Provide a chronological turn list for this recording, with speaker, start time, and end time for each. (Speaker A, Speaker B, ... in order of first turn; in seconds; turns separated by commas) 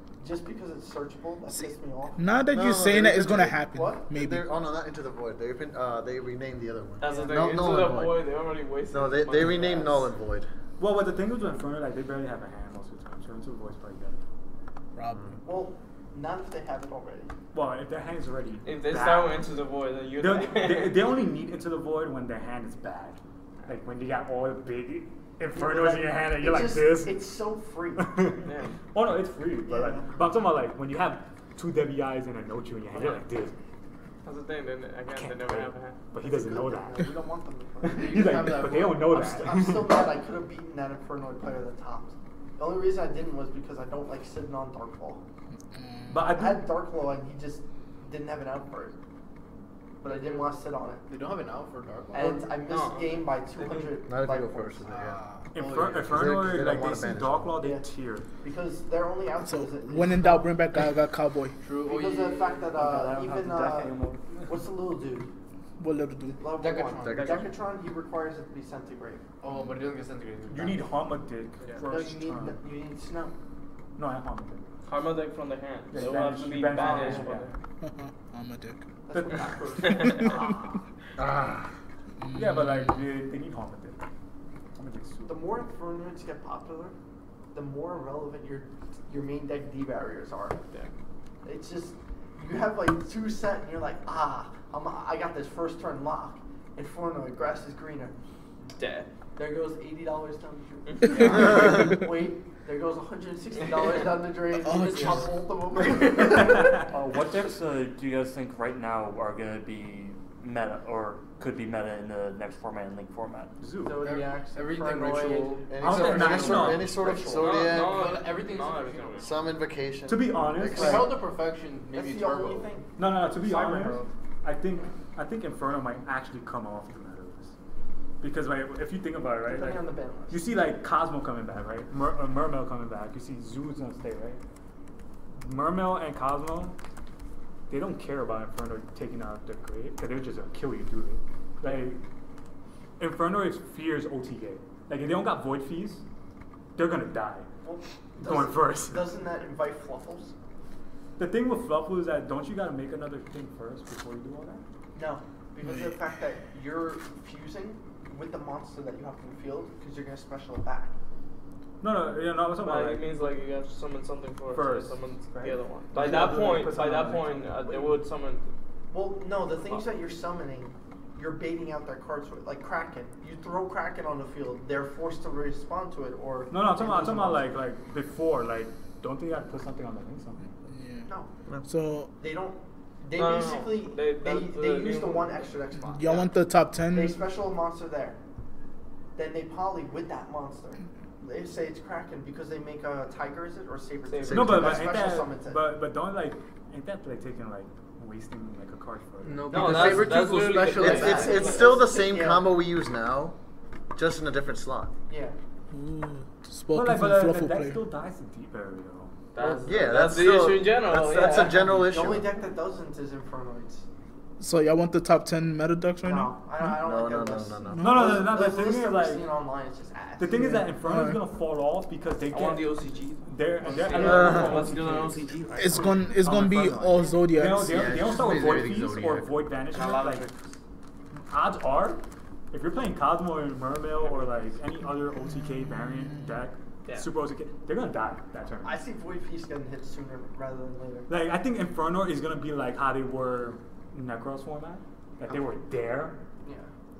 Speaker A: 0.2-2.2, Speaker B: 2.2-4.5, Speaker C: 2.5-8.2, Speaker A: 3.7-4.0, Speaker D: 7.0-10.1, Speaker A: 7.0-7.3, Speaker C: 8.9-10.5, Speaker E: 10.8-14.2, Speaker B: 15.0-15.3, Speaker C: 15.1-15.4, Speaker A: 15.4-17.3, Speaker E: 17.5-19.4, Speaker D: 18.6-21.0, Speaker E: 20.2-27.2, Speaker A: 25.5-28.2, Speaker E: 28.0-33.5, Speaker D: 28.4-28.7, Speaker A: 29.7-30.1, Speaker D: 33.0-33.2, Speaker D: 34.2-36.0, Speaker E: 35.1-37.1, Speaker A: 36.2-45.2, Speaker E: 37.8-40.0, Speaker F: 38.1-39.5, Speaker B: 45.7-46.1, Speaker E: 46.1-46.6, Speaker A: 46.3-49.0, Speaker A: 50.0-51.0, Speaker F: 51.1-52.5, Speaker A: 52.1-54.8, Speaker D: 52.7-53.9, Speaker C: 54.0-55.2, Speaker F: 54.8-56.2, Speaker E: 55.5-58.3, Speaker C: 56.0-57.5, Speaker A: 58.4-60.5, Speaker B: 59.4-61.6, Speaker F: 61.6-62.7, Speaker A: 61.8-65.3, Speaker G: 62.7-64.2, Speaker B: 65.8-66.4, Speaker A: 66.4-69.2, Speaker F: 66.5-67.5, Speaker C: 67.0-67.5, Speaker F: 69.4-70.8, Speaker E: 70.5-72.6, Speaker A: 71.8-73.3, Speaker E: 74.0-74.7, Speaker D: 74.9-77.5, Speaker E: 75.9-77.5, Speaker F: 76.9-77.2, Speaker B: 77.8-78.8, Speaker A: 79.1-80.4, Speaker D: 79.8-80.7, Speaker B: 80.0-80.5, Speaker C: 81.2-81.7, Speaker B: 82.2-83.0, Speaker E: 82.3-84.0, Speaker E: 84.8-85.4, Speaker A: 85.3-86.9, Speaker A: 87.5-90.6, Speaker A: 91.5-98.2, Speaker D: 98.8-99.1, Speaker A: 99.4-106.7, Speaker D: 100.9-101.6, Speaker B: 101.2-101.8, Speaker D: 103.6-104.0, Speaker B: 104.6-105.4, Speaker D: 104.7-105.3, Speaker D: 105.8-106.3, Speaker G: 106.9-113.5, Speaker E: 113.6-114.0, Speaker A: 113.8-117.7, Speaker F: 114.0-116.9, Speaker C: 115.7-118.2, Speaker E: 115.8-117.0, Speaker D: 117.4-119.4, Speaker F: 117.6-119.3, Speaker C: 119.2-121.1, Speaker E: 120.1-121.1, Speaker F: 120.7-122.7, Speaker A: 121.9-122.9, Speaker E: 123.0-127.5, Speaker D: 123.5-124.1, Speaker A: 123.5-124.0, Speaker E: 128.2-134.4, Speaker A: 129.4-130.4, Speaker E: 135.4-136.8, Speaker E: 137.7-142.0, Speaker E: 143.0-146.0, Speaker E: 146.8-147.5, Speaker A: 147.6-150.3, Speaker E: 148.2-149.1, Speaker E: 151.2-154.6, Speaker A: 154.9-160.9, Speaker B: 155.6-155.9, Speaker E: 161.8-163.1, Speaker D: 162.6-168.5, Speaker E: 164.5-167.8, Speaker A: 168.9-177.6, Speaker E: 176.5-180.6, Speaker B: 180.7-181.1, Speaker B: 181.6-182.1, Speaker A: 182.2-186.3, Speaker D: 183.1-185.4, Speaker B: 185.9-187.2, Speaker A: 186.9-188.2, Speaker A: 189.2-195.6, Speaker D: 194.1-194.6, Speaker C: 194.3-194.9, Speaker E: 194.3-200.3, Speaker F: 199.2-201.5, Speaker D: 199.5-201.8, Speaker C: 200.8-203.3, Speaker A: 200.8-202.5, Speaker C: 203.9-204.9, Speaker A: 205.1-205.3, Speaker B: 205.7-207.8, Speaker E: 206.7-209.1, Speaker D: 209.3-211.8, Speaker C: 209.4-212.3, Speaker A: 211.8-213.9, Speaker B: 214.4-216.7, Speaker A: 216.1-220.3, Speaker C: 216.8-218.1, Speaker E: 217.8-219.3, Speaker E: 220.2-230.3, Speaker B: 220.3-221.2, Speaker D: 222.3-225.9, Speaker C: 224.0-224.6, Speaker B: 225.6-227.9, Speaker F: 227.7-229.3, Speaker D: 229.7-230.4, Speaker E: 231.3-232.0, Speaker E: 232.5-238.8, Speaker B: 235.3-236.4, Speaker A: 238.6-241.1, Speaker E: 241.1-246.2, Speaker A: 246.4-246.7